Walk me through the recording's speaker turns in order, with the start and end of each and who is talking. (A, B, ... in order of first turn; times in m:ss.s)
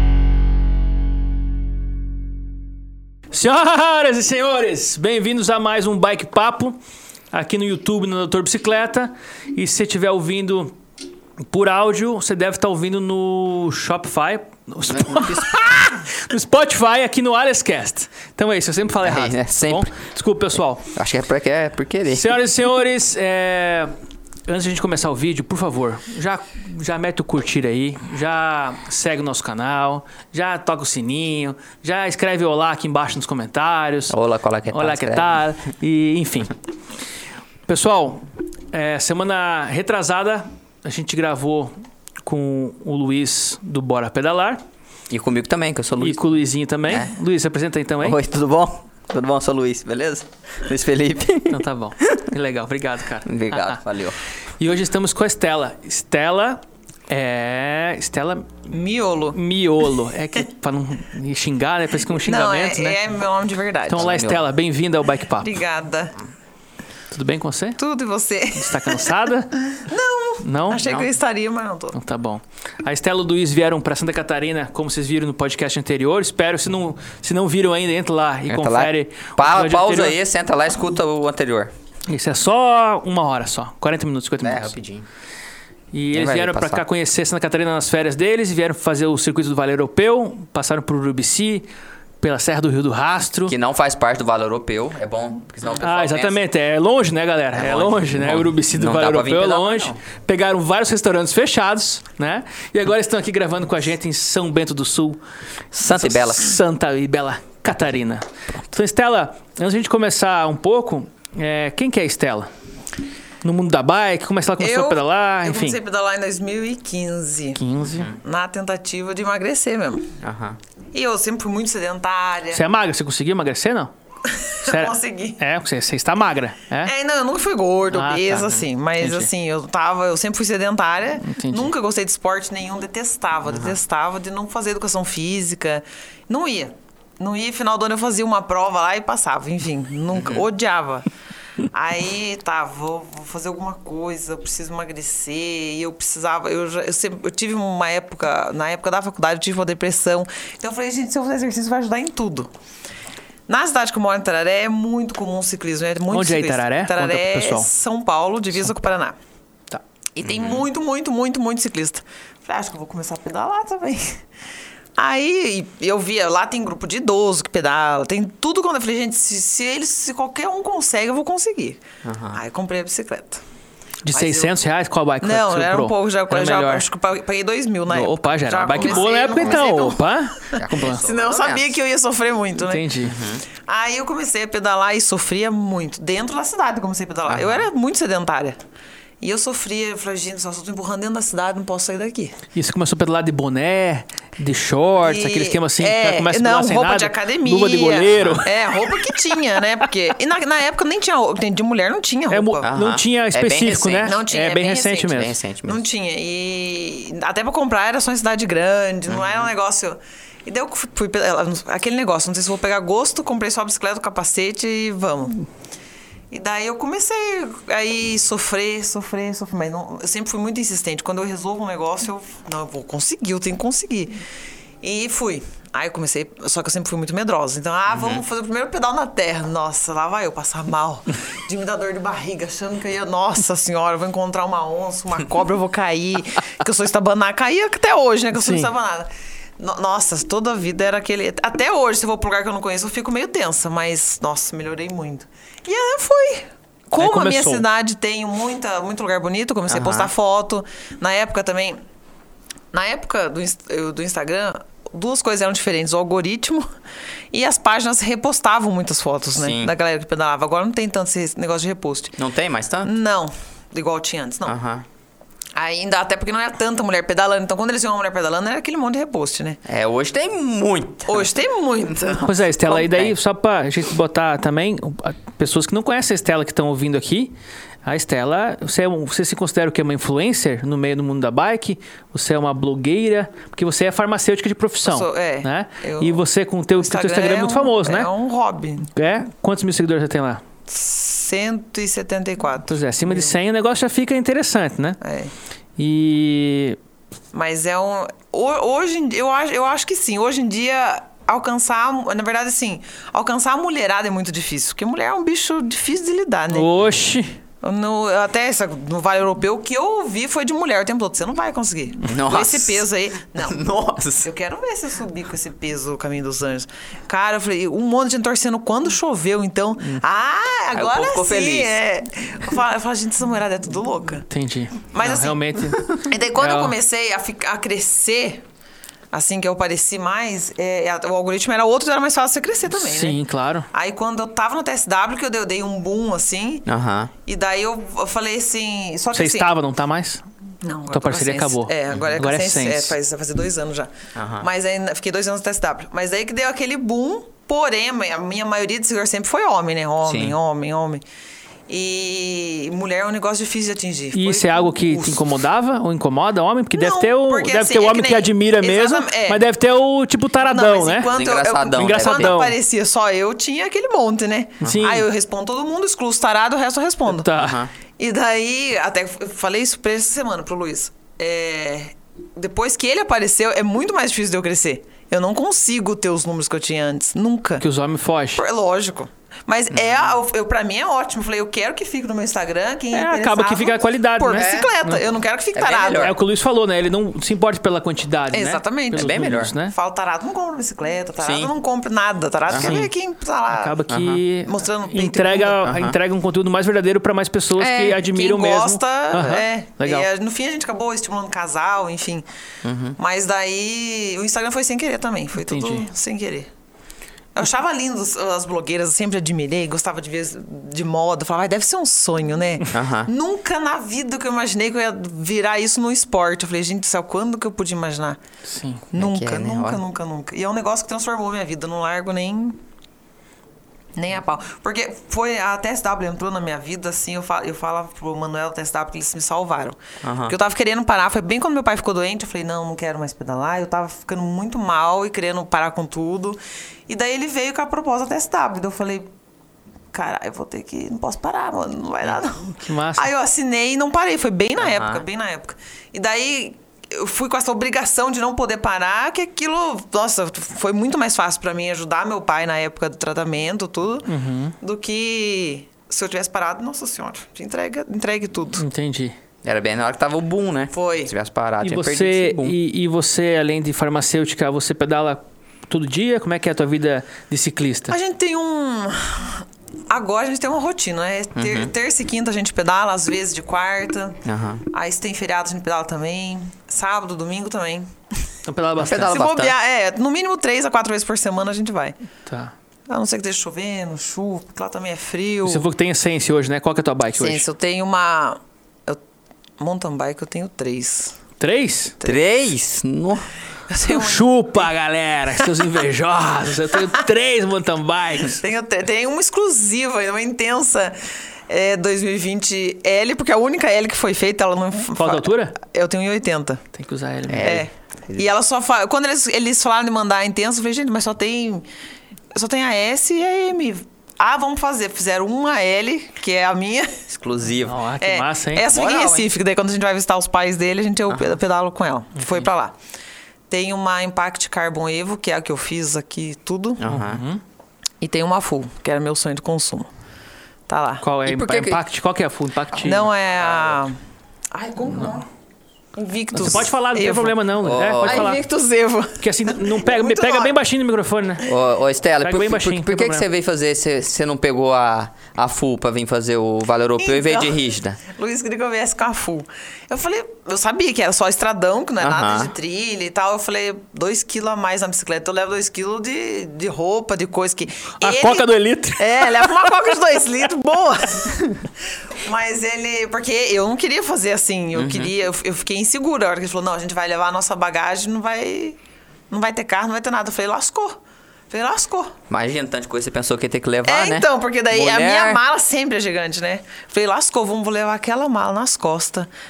0:03.3-0:06.8 A
0:07.3-0:10.8 A
0:11.5-0:20.8 A
0:14.9-0:15.8 B
0:19.0-0:19.9 B
0:20.9-0:22.4 B
0:22.1-0:23.9 A
0:24.5-0:34.2 A
0:34.1-0:35.4 B
0:34.7-0:36.6 A
0:37.7-0:44.6 A
0:45.1-0:46.2 B
0:46.0-0:48.2 A
0:48.0-0:52.2 B
0:51.5-0:53.8 A
0:53.2-0:54.2 B
0:54.6-0:58.5 A
0:58.7-0:59.4 C
0:59.4-1:03.0 A
1:02.3-1:04.1 C
1:03.9-1:05.5 A
1:04.0-1:04.5 B
1:05.4-1:06.2 C
1:07.1-1:07.8 A
1:07.8-1:09.1 C
1:08.6-1:09.6 A
1:09.7-1:12.0 C
1:10.4-1:11.1 A
1:12.0-1:20.2 A
1:18.5-1:21.7 B
1:22.1-1:24.7 A
1:24.4-1:25.1 B
1:25.9-1:31.7 A
1:26.1-1:26.8 B
1:32.2-1:33.5 A
1:33.5-1:36.4 B
1:35.8-1:45.2 A
1:37.6-1:40.0 B
1:45.7-1:46.6 B
1:45.8-1:52.5 A
1:53.4-1:55.8 A
1:54.6-1:57.6 C
1:57.6-1:58.1 A
1:58.2-2:00.1 C
2:00.2-2:00.6 B
2:00.9-2:02.6 C
2:02.5-2:03.9 A
2:04.3-2:05.4 C
2:04.7-2:06.9 A
2:06.8-2:21.1 C
2:07.9-2:08.4 A
2:08.3-2:08.6 B
2:09.0-2:09.3 A
2:11.2-2:11.7 A
2:13.5-2:13.8 B
2:20.1-2:20.4 B
2:21.7-2:32.5 C
2:33.5-2:39.2 C
2:36.1-2:37.7 A
2:40.2-2:44.2 C
2:40.2-2:40.7 B
2:45.0-2:53.4 C
2:52.0-2:52.4 B
2:54.1-2:56.8 A
2:54.1-2:54.6 C
2:55.2-3:02.9 C
2:57.9-3:01.0 A
2:58.8-2:59.8 B
3:00.6-3:01.7 B
3:02.6-3:03.2 A
3:03.0-3:03.4 B
3:03.7-3:08.6 C
3:07.3-3:07.7 B
3:09.2-3:12.4 C
3:12.6-3:18.9 A
3:15.0-3:22.7 C
3:18.1-3:18.5 B
3:22.3-3:25.4 A
3:22.6-3:24.2 B
3:24.0-3:35.4 C
3:25.1-3:25.8 B
3:29.1-3:29.5 B
3:36.3-3:44.2 C
3:44.8-4:11.8 C
3:47.9-3:48.2 B
3:58.4-3:58.7 A
4:06.9-4:07.6 A
4:09.7-4:10.1 B
4:12.7-4:16.7 C
4:17.3-4:22.2 C
4:19.4-4:19.7 B
4:22.2-4:22.9 B
4:22.8-4:24.6 C
4:24.5-4:24.8 B
4:25.6-4:29.6 C
4:29.6-4:33.2 B
4:31.1-4:32.3 C
4:32.2-4:37.3 A
4:37.8-4:48.1 A
4:44.8-4:46.2 C
4:46.8-4:48.9 C
4:48.9-4:50.4 A
4:50.7-4:53.3 C
4:52.7-4:55.0 A
4:55.0-4:55.3 C
4:55.8-4:56.8 A
4:57.3-5:06.7 C
5:06.5-5:07.4 A
5:07.6-5:13.7 C
5:12.0-5:12.8 B
5:13.4-5:14.3 B
5:14.2-5:24.3 C
5:20.7-5:21.8 B
5:24.3-5:26.7 A
5:24.9-5:25.4 C
5:26.0-5:28.4 C
5:29.1-5:33.2 C
5:32.7-5:33.7 A
5:33.7-5:36.7 C
5:36.7-5:37.1 B
5:37.3-5:39.5 C
5:39.1-5:40.2 A
5:40.6-5:51.0 C
5:40.9-5:43.0 A
5:44.2-5:44.5 B
5:50.0-5:50.4 B
5:51.7-5:55.2 C
5:54.1-6:01.1 A
5:56.7-5:59.4 C
6:00.4-6:07.3 C
6:01.1-6:02.4 B
6:01.7-6:02.6 A
6:04.6-6:04.9 B
6:04.6-6:05.1 A
6:07.1-6:07.6 A
6:07.4-6:07.7 B
6:08.0-6:17.6 C
6:17.6-6:18.4 A
6:18.4-6:26.1 C
6:19.7-6:20.2 B
6:22.9-6:25.0 A
6:24.4-6:24.7 B
6:25.6-6:26.2 B
6:25.9-6:29.7 A
6:28.3-6:33.8 C
6:28.9-6:29.5 B
6:31.2-6:31.5 B
6:32.5-6:32.8 B
6:32.5-6:32.9 A
6:33.5-6:40.1 A
6:33.9-6:34.2 B
6:34.4-6:35.6 C
6:35.6-6:36.0 B
6:37.6-6:42.2 C
6:42.6-6:43.0 B
6:43.0-6:46.5 C
6:45.4-6:45.8 A
6:47.4-6:58.2 C
6:52.7-6:53.1 B
6:58.5-6:58.8 A
6:58.9-7:02.6 C
6:58.9-6:59.8 B
7:04.0-7:19.1 C
7:10.0-7:10.4 B
7:19.9-7:34.1 C
7:22.6-7:23.1 A
7:24.6-7:25.0 B
7:34.1-7:34.6 A
7:34.6-7:38.6 C
7:38.6-7:39.2 A
7:39.4-7:42.6 B
7:40.7-7:41.1 C
7:41.6-7:48.0 A
7:47.9-7:57.9 C
7:51.4-7:51.7 B
7:54.2-7:54.6 B
7:58.5-7:59.2 A
7:58.8-7:59.5 B
7:59.0-8:02.0 C
8:02.3-8:02.5 A
8:02.9-8:05.7 C
8:05.5-8:07.4 A
8:07.2-8:09.0 C
8:09.6-8:11.2 C
8:11.4-8:12.0 A
8:12.0-8:13.3 B
8:13.7-8:14.7 C
8:13.9-8:18.4 A
8:18.4-8:26.6 C
8:25.0-8:25.6 A
8:26.7-8:27.6 A
8:27.3-8:28.3 B
8:27.4-8:31.7 C
8:32.3-8:37.0 C
8:37.1-8:37.8 B
8:37.7-8:38.6 A
8:38.0-8:42.8 C
8:38.6-8:39.3 B
8:41.1-8:41.4 B
8:43.5-8:46.8 C
8:46.8-8:47.2 B
8:46.8-8:47.4 A
8:48.0-8:49.9 C
8:50.7-8:51.0 C
8:51.0-8:53.1 A
8:51.3-8:51.8 B
8:52.8-8:54.0 C
8:53.4-8:53.8 B
8:54.5-8:55.3 C
8:56.0-8:57.4 C
8:56.3-8:58.4 A
8:57.6-8:58.4 B
8:58.0-9:00.6 C
8:59.2-9:01.4 A
9:01.5-9:08.0 B
9:02.2-9:03.3 A
9:07.0-9:21.6 C
9:12.0-9:12.5 B
9:18.0-9:19.7 A
9:22.1-9:28.8 C
9:24.8-9:25.1 B
9:29.3-9:31.0 C
9:31.5-9:32.2 C
9:32.3-9:35.4 B
9:33.8-9:39.3 C